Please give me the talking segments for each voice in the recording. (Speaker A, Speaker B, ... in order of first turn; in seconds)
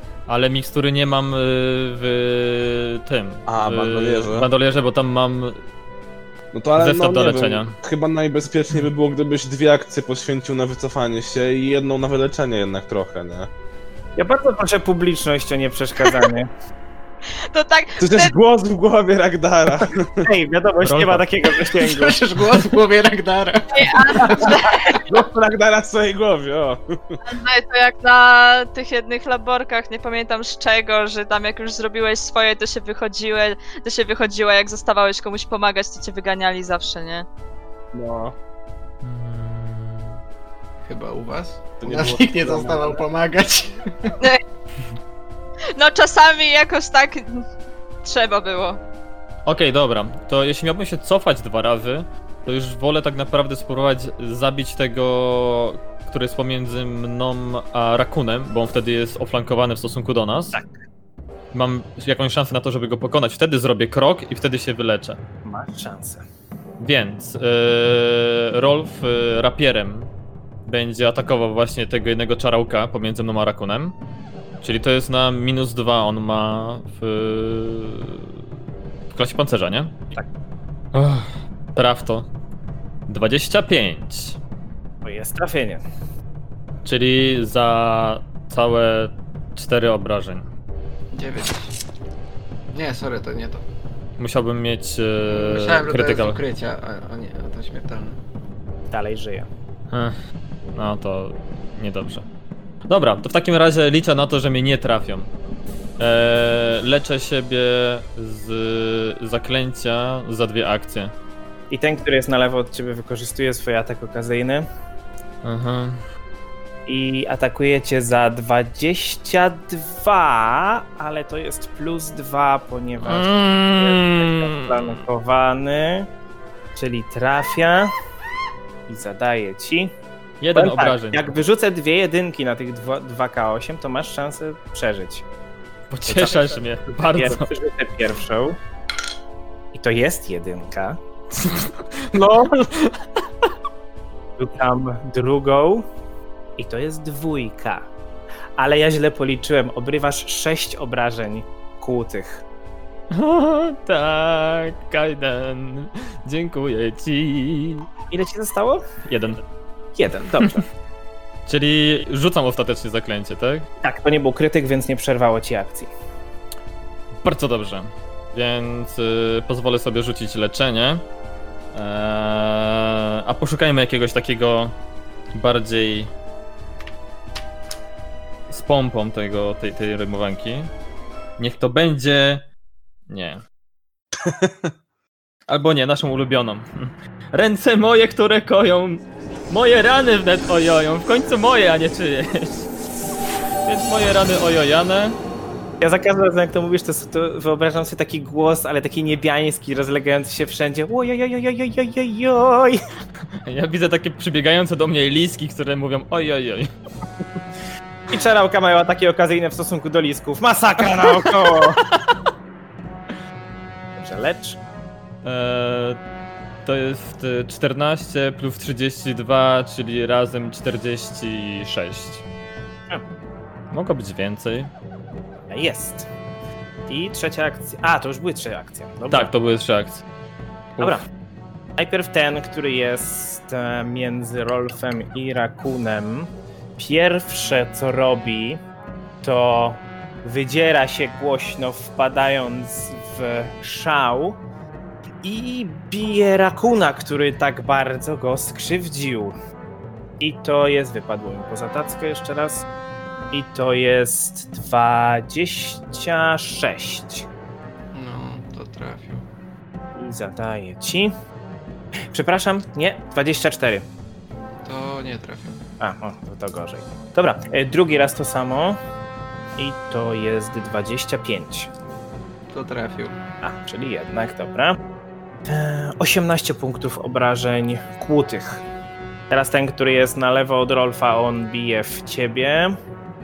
Speaker A: 0.3-5.6, 6.8-7.7, 20.8-21.2, 39.0-40.2, 49.5-60.6, 61.5-65.2, 66.8-70.1, 70.7-73.9, 74.6-78.4, 79.1-79.9, 80.9-82.3, 83.1-84.4, 86.8-90.5, 94.2-96.4, 99.9-100.2, 100.7-102.2, 102.9-105.3, 106.0-111.1, 115.4-116.0, 123.0-125.0, 130.4-131.2, 135.9-137.5, 141.3-143.0, 153.1-157.8, 159.1-159.4, 161.5-163.7, 167.2-171.0, 171.7-174.8, 175.3-176.1, 178.5-180.7, 181.4-182.4, 183.1-183.4, 185.5-192.7, 193.6-195.2, 203.4-206.7, 211.2-211.9, 215.2-216.0, 216.6-222.2, 223.7-224.7, 229.1-230.0
Speaker B: 3.5-4.5, 6.5-13.5, 18.0-20.2, 24.4-27.2, 37.9-38.3, 41.8-43.0, 184.2-184.7
Speaker C: 14.2-16.5, 20.2-22.2, 65.4-66.2, 85.0-85.8, 98.9-99.5, 111.7-114.7, 116.8-126.1, 126.7-127.9, 128.9-129.9, 130.5-135.2, 136.1-138.6, 139.7-141.0, 144.4-145.9, 146.6-147.9, 148.6-152.4, 158.1-158.8, 159.9-160.7, 163.8-165.9, 195.8-202.8, 208.1-211.8, 213.9-214.6, 225.5-226.1, 226.9-229.3, 231.8-238.6, 239.2-244.4, 245.2-249.3, 250.2-252.7, 253.3-257.3, 259.9-261.1, 262.1-263.9, 265.8-268.8, 269.6-271.7, 273.4-274.8, 275.5-278.6, 279.3-282.8
Speaker D: 17.5-18.3, 23.7-25.1, 27.2-37.2, 45.7-47.5, 48.0-48.8
Speaker E: 21.7-24.4, 40.8-44.1, 91.1-91.7, 92.7-93.6, 95.3-98.2, 257.9-259.2, 264.6-265.6, 272.5-273.2